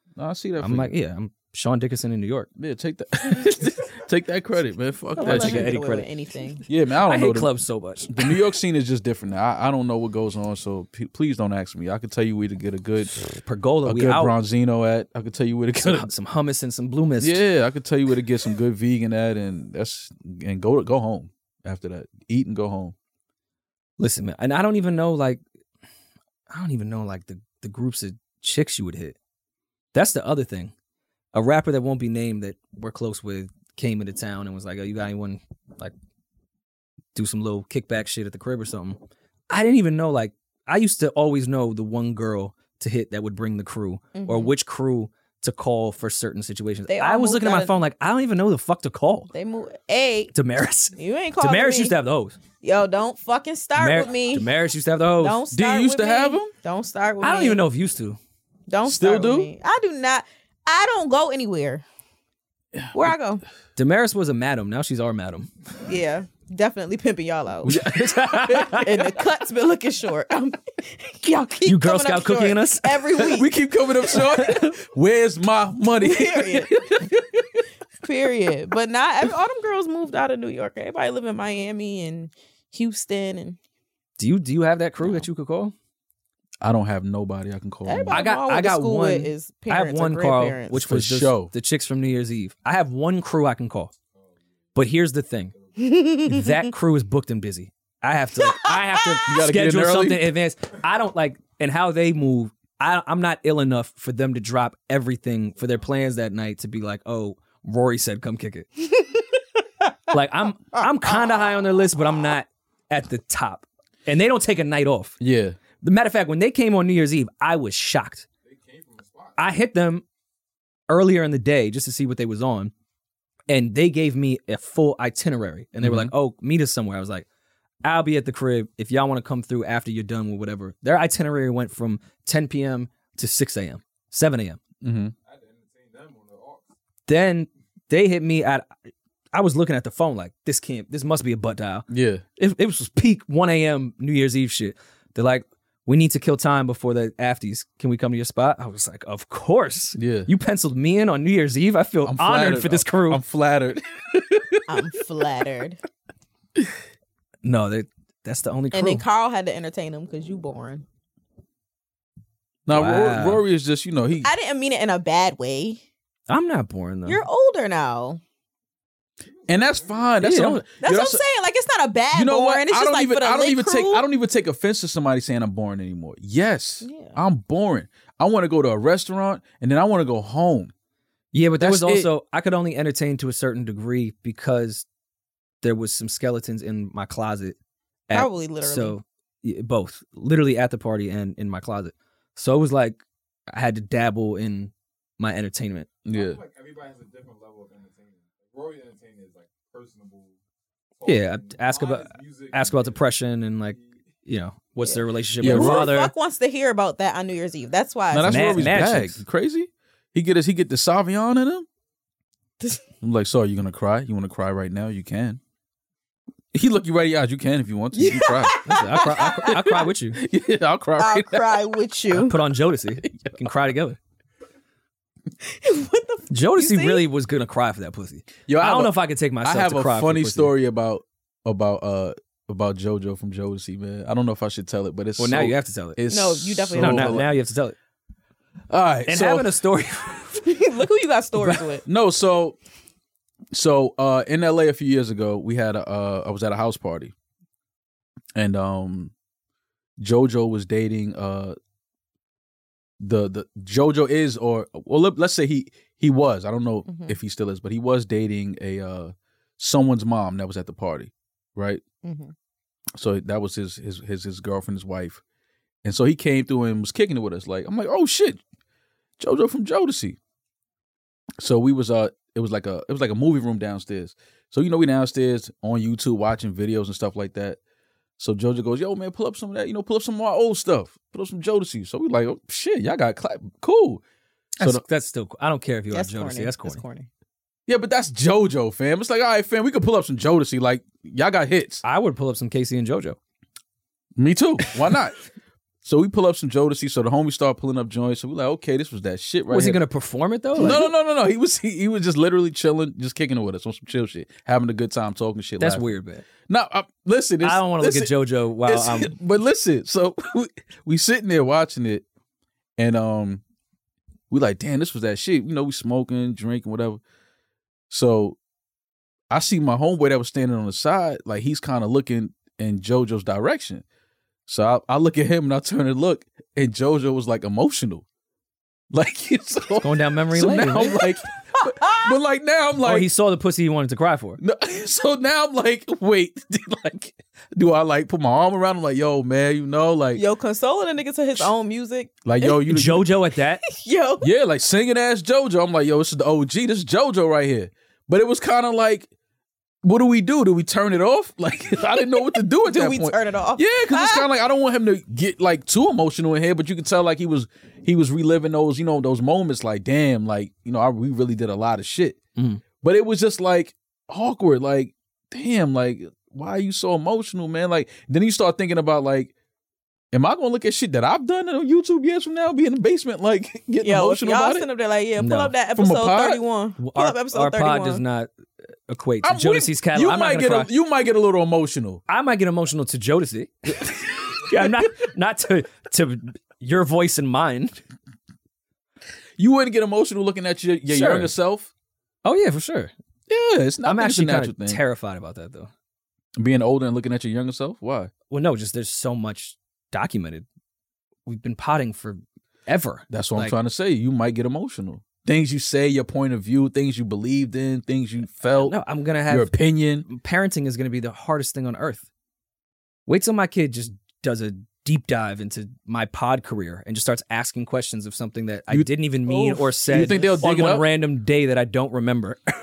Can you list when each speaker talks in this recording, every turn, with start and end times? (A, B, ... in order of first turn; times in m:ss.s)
0:00.2-0:00.9 A
0:00.6-0:02.5 B
0:02.6-0:05.7 A
0:05.2-0:06.6 C
0:05.2-0:06.1 B
0:06.7-0:07.5 A
0:07.0-0:08.2 B
0:08.1-0:13.3 A
0:13.4-0:14.4 B
0:13.8-0:16.1 A
0:15.8-0:17.4 B
0:17.2-0:22.9 A
0:24.0-0:25.4 B
0:26.5-0:29.2 B
0:29.9-0:30.7 B
0:31.3-0:35.9 B
0:37.1-0:49.3 B
0:44.1-0:44.5 C
0:46.9-0:47.7 C
0:49.3-0:50.3 C
0:50.3-0:52.4 B
0:51.0-0:52.0 C
0:52.6-0:54.5 C
0:53.8-0:55.4 B
0:55.2-0:57.6 C
0:55.5-0:56.5 A
0:57.2-0:58.2 B
0:58.7-1:01.8 C
0:58.8-0:59.5 A
1:02.9-1:03.4 C
1:03.8-1:05.5 B
1:05.8-1:07.8 C
1:07.6-1:09.2 B
1:07.6-1:08.8 A
1:08.6-1:13.5 C
1:11.6-1:13.3 B
1:13.2-1:17.4 A
1:14.2-1:14.7 B
1:16.0-1:16.8 C
1:18.0-1:23.6 C
1:24.2-1:25.7 B
1:26.6-1:28.2 A
1:27.8-1:30.8 C
1:28.1-1:33.9 B
1:30.8-1:31.5 A
1:34.2-1:34.8 D
1:34.7-1:35.5 B
1:35.5-1:35.8 D
1:35.8-1:36.6 C
1:36.2-1:48.7 B
1:38.6-1:39.2 C
1:39.2-1:40.3 A
1:45.6-1:45.9 D
1:50.1-1:55.2 B
1:55.2-1:55.6 A
1:55.8-1:58.3 B
1:58.4-1:59.5 D
1:59.4-2:00.0 B
2:00.9-2:02.7 B
2:03.5-2:07.2 B
2:05.8-2:06.1 A
2:07.8-2:14.6 B
2:14.8-2:15.1 A
2:15.2-2:16.7 D
2:17.1-2:18.7 B
2:19.3-2:33.2 B
2:21.9-2:22.2 A
2:30.0-2:30.3 A
2:32.0-2:34.6 A
2:34.7-2:35.8 C
2:37.4-2:39.0 B
2:38.7-2:40.8 C
2:42.7-2:44.3 A
2:42.7-2:43.4 B
2:44.2-2:45.8 C
2:46.3-2:47.2 B
2:47.0-2:48.2 C
2:49.5-2:51.2 A
2:49.5-2:50.1 D
2:50.2-2:50.6 B
2:50.8-2:54.0 C
2:52.1-3:00.7 A
2:56.8-2:57.2 C
3:01.3-3:04.8 B
3:01.6-3:02.1 A
3:05.6-3:07.6 B
3:08.1-3:15.9 B
3:08.1-3:09.0 C
3:16.0-3:16.4 A
3:16.1-3:20.4 D
3:21.0-3:23.1 D
3:21.0-3:26.1 B
3:24.8-3:28.6 C
3:25.4-3:25.9 A
3:28.1-3:31.7 A
3:28.2-3:29.2 B
3:33.0-3:35.4 A
3:36.5-3:38.6 A
3:37.9-3:39.6 C
3:38.6-3:40.2 B
3:39.2-3:41.7 A
3:41.0-3:42.4 C
3:42.1-3:44.0 B
3:43.0-3:43.4 A
3:45.4-3:47.0 C
3:46.3-3:50.5 B
3:48.5-3:57.3 A
3:55.2-3:56.0 B
3:56.1-3:57.2 C
3:56.7-3:57.8 B
3:58.7-3:59.5 A
3:59.1-4:00.5 B
4:00.4-4:01.8 C
4:01.8-4:02.6 A
4:03.5-4:07.1 A
4:08.3-4:09.1 A
4:10.0-4:11.6 A
4:13.0-4:21.8 A
4:16.8-4:17.2 C
4:22.0-4:22.3 C
4:23.0-4:25.2 A
4:25.8-4:28.4 A
4:29.2-4:30.2 A
4:31.4-4:37.6 A
4:38.2-4:44.0 A
4:44.6-4:46.8 B
4:45.9-4:47.1 C
4:47.7-4:51.8 A
4:51.8-4:53.2 B
4:54.2-4:55.2 A
4:55.8-4:59.8 A
4:59.5-5:00.9 B
5:00.6-5:05.9 A
5:05.6-5:06.2 B
5:06.5-5:08.1 A
5:07.4-5:09.1 B
5:08.6-5:12.0 A
5:12.8-5:13.4 A
5:14.3-5:17.0 A
5:17.9-5:18.4 A
5:19.3-5:23.8 A
5:24.5-5:28.0 A
5:28.9-5:33.1 A
5:29.8-5:31.0 B
5:32.8-5:34.4 B
5:34.4-5:40.2 A
5:40.1-5:42.6 C
5:42.2-5:43.0 A
5:42.7-5:43.6 B
5:43.6-5:44.3 C
5:44.2-5:49.1 A
5:49.8-6:02.2 A
5:52.3-5:54.3 C
6:02.4-6:02.6 B
6:02.8-6:09.3 A
6:10.1-6:14.6 A
6:13.8-6:18.0 C
6:15.2-6:15.5 B
6:15.8-6:16.4 A
6:16.8-6:18.3 B
6:18.9-6:20.7 B
6:19.2-6:22.0 A
6:22.1-6:27.8 B
6:23.8-6:24.9 A
6:29.4-6:31.7 A
6:30.9-6:31.3 B
6:32.2-6:32.9 B
6:33.3-6:34.8 A
6:33.8-6:35.7 B
6:36.4-6:38.1 A
6:38.3-6:40.4 B
6:41.2-6:43.6 B
6:43.1-6:48.8 A
6:48.6-6:49.5 B
6:49.3-6:50.1 A
6:50.0-6:52.0 B
6:53.1-7:02.4 B
6:59.3-7:00.4 C
6:59.9-7:00.8 A